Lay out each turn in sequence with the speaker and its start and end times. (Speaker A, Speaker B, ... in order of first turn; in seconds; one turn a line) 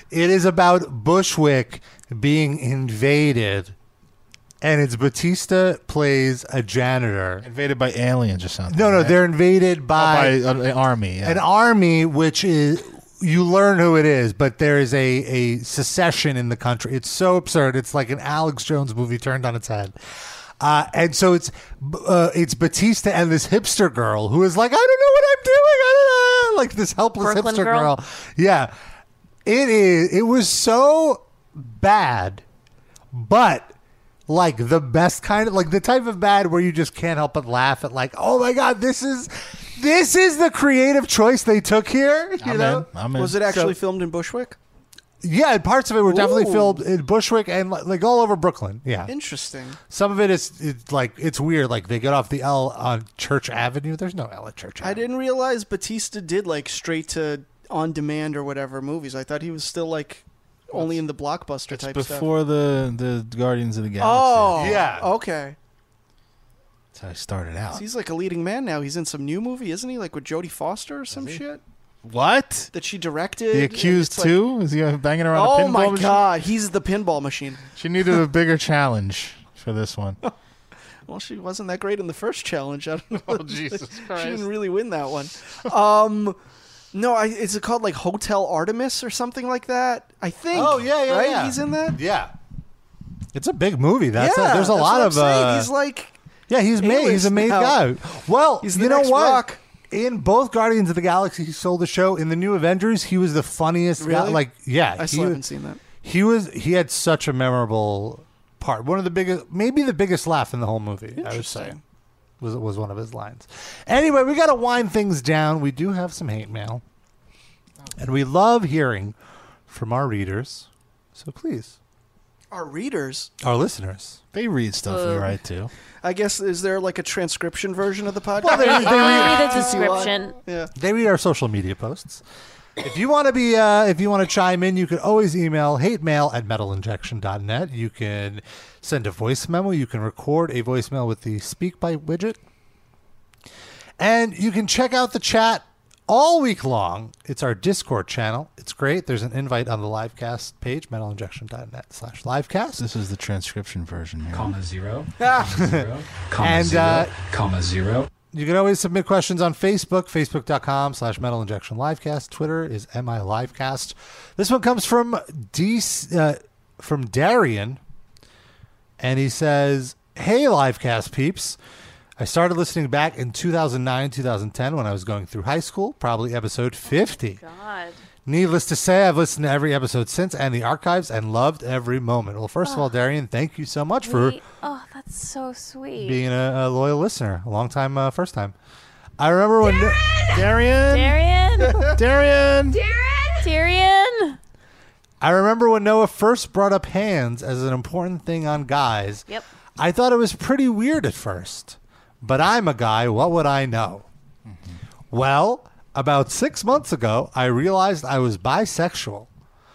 Speaker A: 0.1-3.7
Speaker A: 4.6-7.5
Speaker B: 7.4-9.2
Speaker A: 8.7-10.4
Speaker B: 9.9-11.4
Speaker A: 11.2-19.9
Speaker A: 20.6-28.7
Speaker C: 27.2-27.9
Speaker A: 29.4-32.4
Speaker A: 33.1-33.7
Speaker A: 34.3-42.9
Speaker B: 42.4-43.4
Speaker D: 43.2-44.6
Speaker A: 43.5-43.7
Speaker A: 45.2-49.1
Speaker D: 46.1-46.8
Speaker D: 49.1-49.8
Speaker A: 49.9-55.0
Speaker D: 54.8-62.3
Speaker B: 61.7-64.8
Speaker D: 64.0-65.6
Speaker A: 64.6-65.1
Speaker B: 66.9-67.8
Speaker D: 67.7-71.6
Speaker B: 72.0-72.7
Speaker D: 72.7-74.4
Speaker B: 73.5-76.3
Speaker D: 75.3-77.7
Speaker B: 77.8-80.2
Speaker D: 81.1-86.4
Speaker B: 83.3-84.5
Speaker D: 86.9-92.0
Speaker A: 90.5-92.3
Speaker A: 93.3-95.7
Speaker D: 94.2-96.2
Speaker A: 96.5-105.4
Speaker D: 96.8-97.8
Speaker D: 98.6-99.6
Speaker D: 104.0-104.4
Speaker D: 105.0-105.8
Speaker A: 106.0-111.8
Speaker D: 111.2-111.8
Speaker A: 112.4-116.8
Speaker A: 118.0-119.2
Speaker A: 119.7-121.8
Speaker D: 122.5-123.3
Speaker A: 123.4-124.2
Speaker B: 124.3-125.7
Speaker C: 124.9-125.3
Speaker D: 126.0-130.7
Speaker A: 128.4-130.0
Speaker C: 128.5-130.4
Speaker A: 130.8-132.2
Speaker A: 132.8-142.4
Speaker A: 144.0-152.8
Speaker B: 152.8-154.5
Speaker E: 154.3-158.1
Speaker D: 155.2-155.5
Speaker A: 155.4-157.2
Speaker A: 158.3-167.8
Speaker A: 169.0-171.6
Speaker A: 172.2-177.4
Speaker C: 176.9-178.0
Speaker A: 178.2-184.4
Speaker C: 184.0-186.2
Speaker A: 186.0-188.5
Speaker A: 189.2-190.4
Speaker B: 190.3-191.2
Speaker C: 190.9-191.9
Speaker B: 191.8-192.8
Speaker C: 193.0-194.4
Speaker A: 195.2-199.3
Speaker A: 199.8-204.1
Speaker B: 204.4-204.8
Speaker A: 205.1-209.3